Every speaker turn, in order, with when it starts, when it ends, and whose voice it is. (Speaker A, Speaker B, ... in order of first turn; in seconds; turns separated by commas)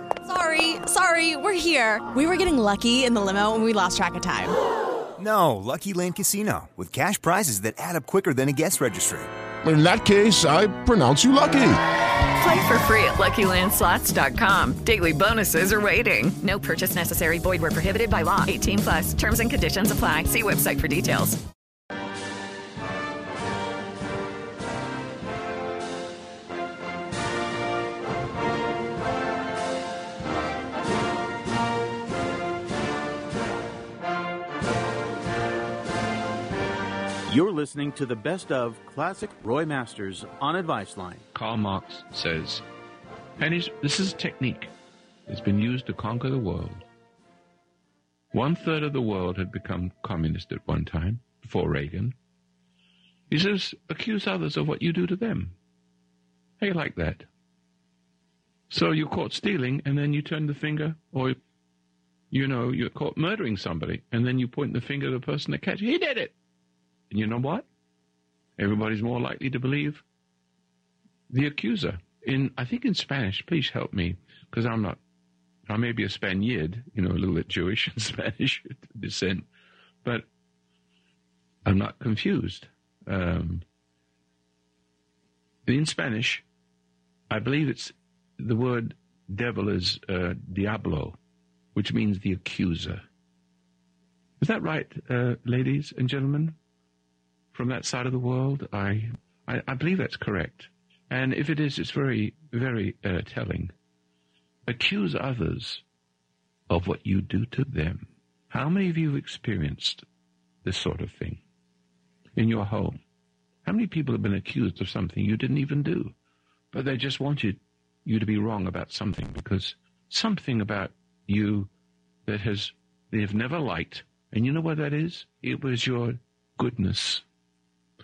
Speaker A: 0.2-4.5, Speaker B: 5.2-9.3, Speaker C: 9.6-11.8, Speaker D: 12.4-21.4, Speaker E: 37.3-41.2, Speaker F: 41.3-42.6, Speaker F: 43.4-44.7, Speaker F: 45.3-46.8, Speaker F: 48.3-52.1, Speaker F: 53.3-55.5, Speaker F: 56.6-57.3, Speaker F: 58.7-61.4, Speaker F: 62.3-66.3, Speaker F: 67.1-67.6, Speaker F: 68.6-70.0, Speaker F: 71.3-75.0, Speaker F: 75.7-79.5, Speaker F: 81.6-83.6, Speaker F: 85.7-86.4, Speaker F: 87.3-91.2, Speaker F: 91.7-93.0, Speaker F: 94.4-96.5, Speaker F: 97.5-103.7, Speaker F: 104.7-105.8, Speaker F: 106.7-110.0, Speaker F: 110.6-111.4, Speaker F: 112.3-113.0, Speaker F: 113.6-116.1, Speaker F: 116.7-121.7, Speaker F: 122.2-127.2